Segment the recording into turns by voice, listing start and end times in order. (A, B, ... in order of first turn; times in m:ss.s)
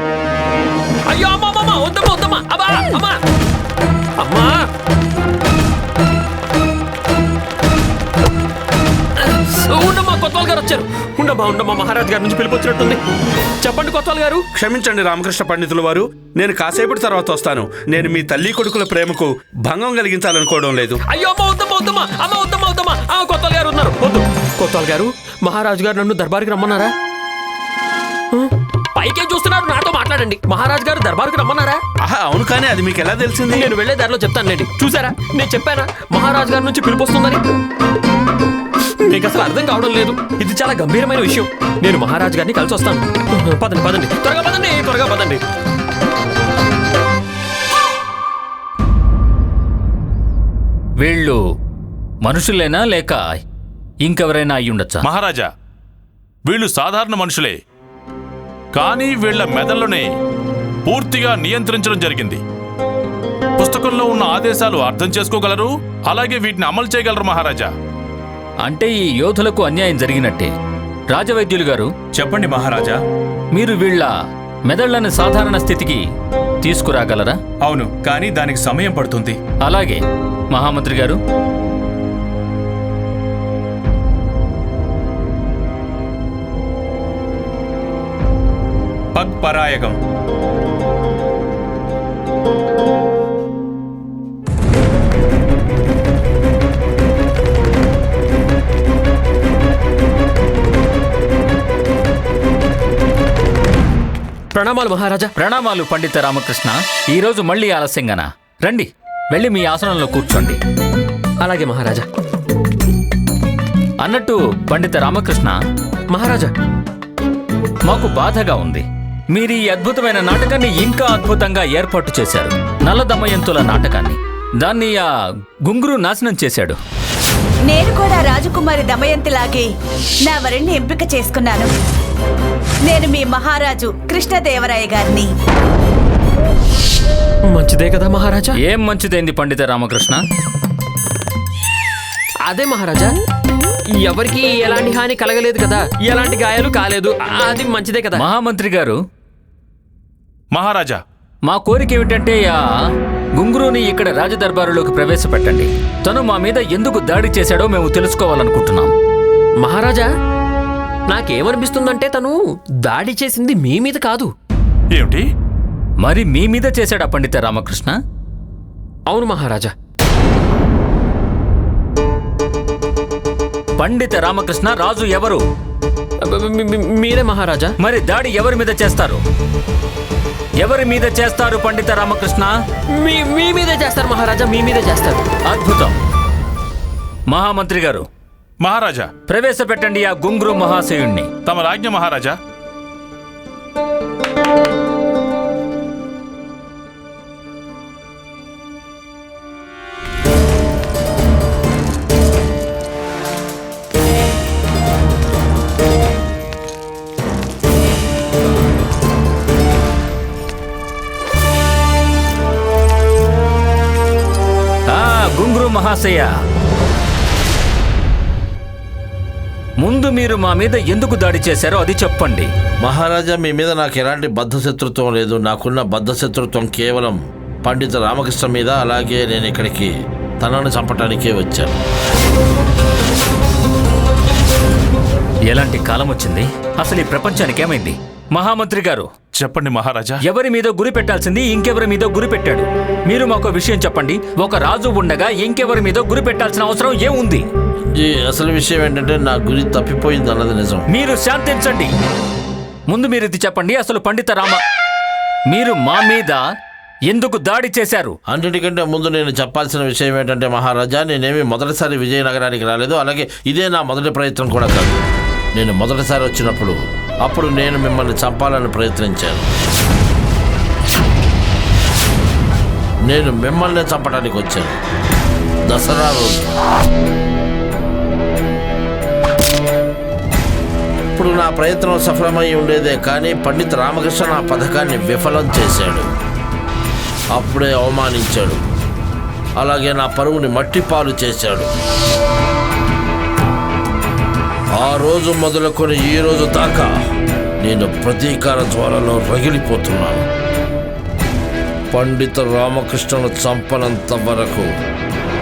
0:01.1-0:03.2 A
0:04.2-0:04.6 A
0:09.2-0:13.0 A
0:13.6-0:14.4 A
0:14.6-0:21.0 B
0:21.1-0:26.9 A
0:28.3-0:31.8 A
0:32.2-0:33.6 B
0:32.8-0:33.0 C
0:33.5-0:37.4 A
0:39.0-0:45.4 A
0:51.0-0:51.4 D
0:52.2-0:53.2 D
0:54.0-0:55.1 D
0:55.0-0:55.5 E
0:56.5-0:57.6 E
0:58.8-1:00.0 E
1:00.9-1:02.4 E
1:03.6-1:07.7 E
1:08.6-1:10.5 D
1:11.1-1:11.9 D
1:12.2-1:13.0 C
1:13.6-1:14.1 D
1:14.7-1:16.0 D
1:16.6-1:17.4 D
1:17.7-1:19.4 C
1:19.6-1:20.0 D
1:20.5-1:21.2 D
1:29.2-1:29.9 C
1:44.5-1:45.3 A
1:45.4-1:50.6 D
1:51.4-1:52.0 A
1:54.0-1:55.6 D
1:56.1-1:56.5 A
1:57.8-2:05.0 D
2:05.7-2:06.8 D
2:07.7-2:09.7 F
2:10.3-2:11.7 F
2:12.9-2:15.3 F
2:17.5-2:18.6 A
2:18.6-2:20.2 D
2:22.5-2:23.1 A
2:24.0-2:28.2 A
2:28.2-2:29.0 D
2:30.5-2:31.0 E
2:31.5-2:32.6 D
2:33.4-2:38.9 D
2:39.6-2:40.1 A
2:41.1-2:42.4 A
2:42.9-2:44.3 A
2:44.9-2:45.2 E
2:46.0-2:48.0 D
2:49.1-2:49.7 A
2:53.8-2:55.4 D
2:56.2-2:57.7 A
2:57.8-2:59.2 D
3:00.6-3:02.6 D
3:03.0-3:05.2 A
3:05.5-3:06.0 D
3:07.3-3:08.1 D
3:08.6-3:09.1 E
3:09.3-3:11.3 D
3:11.4-3:12.4 E
3:34.9-3:36.3 D
3:39.8-3:42.5 D
3:42.8-3:51.8 G
3:55.5-3:59.1 D
3:59.4-4:00.2 E
4:00.2-4:07.4 D
4:08.0-4:10.9 G
4:10.9-4:11.9 D
4:12.9-4:14.6 D
4:15.5-4:16.4 D
4:17.1-4:18.2 D
4:18.3-4:25.0 G
4:25.6-4:29.5 G
4:33.1-4:34.8 G
4:35.7-4:36.5 G
4:41.1-4:46.1 G
4:47.4-4:48.6 G
4:49.6-4:51.7 G
4:54.8-4:56.9 G
4:57.6-5:00.2 G
5:01.9-5:04.7 G